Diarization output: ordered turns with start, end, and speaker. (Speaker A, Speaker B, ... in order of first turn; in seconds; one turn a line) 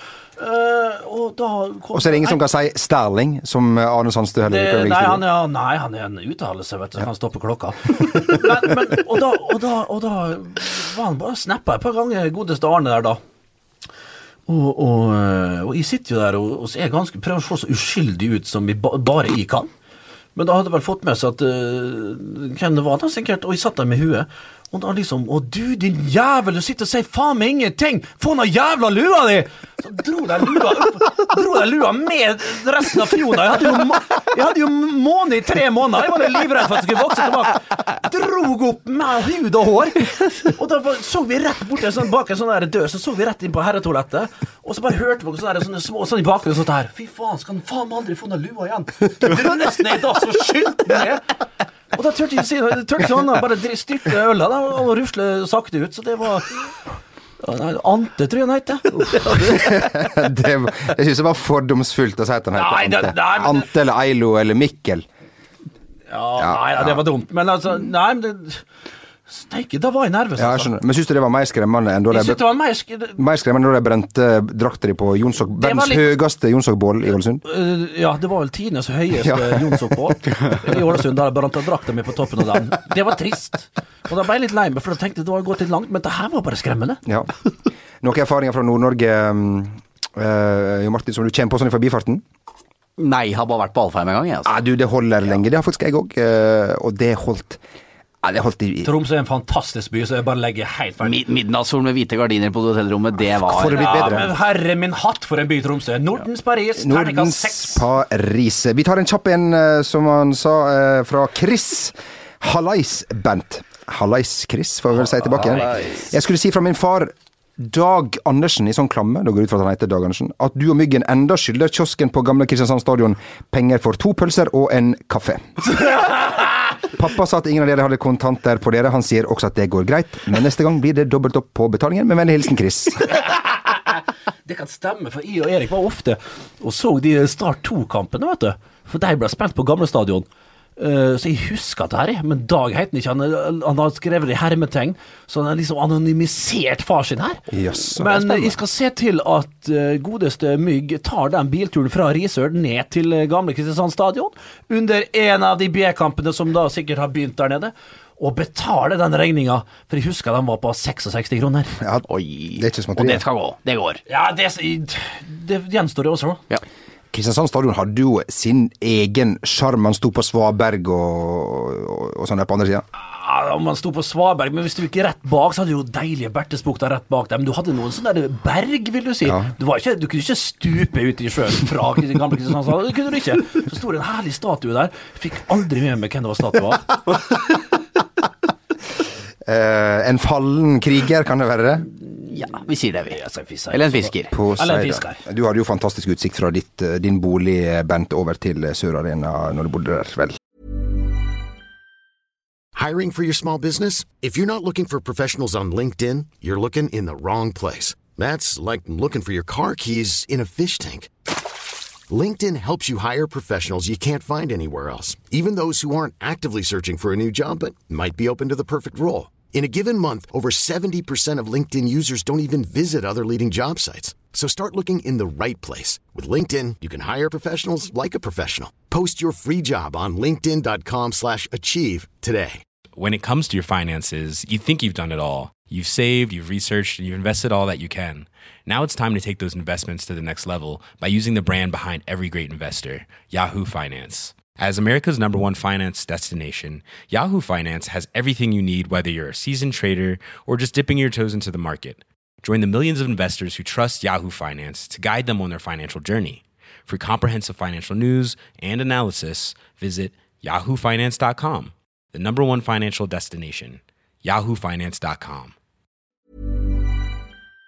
Speaker A: 0.4-2.4
Speaker B: 1.9-5.2
Speaker A: 4.5-13.2
Speaker A: 14.5-19.7
Speaker A: 20.4-51.3
Speaker A: 51.9-56.6
Speaker A: 57.4-60.0
Speaker B: 59.5-65.1
Speaker A: 62.5-63.7
Speaker A: 66.1-68.6
Speaker B: 66.4-67.0
Speaker A: 69.3-70.7
Speaker B: 70.4-72.5
Speaker A: 72.1-73.2
Speaker B: 73.2-77.4
Speaker A: 75.6-76.1
Speaker A: 77.5-87.0
Speaker B: 79.2-79.9
Speaker B: 87.1-87.3
Speaker B: 88.0-92.2
Speaker C: 93.0-94.5
Speaker B: 94.5-97.6
Speaker B: 98.2-98.9
Speaker A: 98.8-101.2
Speaker C: 101.0-104.3
Speaker B: 103.5-104.3
Speaker A: 103.5-107.8
Speaker B: 106.8-125.5
Speaker C: 115.3-116.0
Speaker A: 125.8-126.5
Speaker B: 126.9-133.1
Speaker A: 133.2-133.8
Speaker A: 134.5-147.4
Speaker B: 147.5-148.6
Speaker A: 148.0-161.8
Speaker B: 161.8-162.1
Speaker C: 162.1-164.0
Speaker B: 162.6-163.2
Speaker A: 164.1-166.4
Speaker B: 167.1-172.8
Speaker A: 173.0-187.0
Speaker B: 189.5-191.9
Speaker C: 192.3-193.2
Speaker A: 193.1-195.2
Speaker C: 193.7-194.3
Speaker B: 194.3-200.4
Speaker D: 202.8-211.1
Speaker D: 212.1-232.6
Speaker E: 233.0-265.5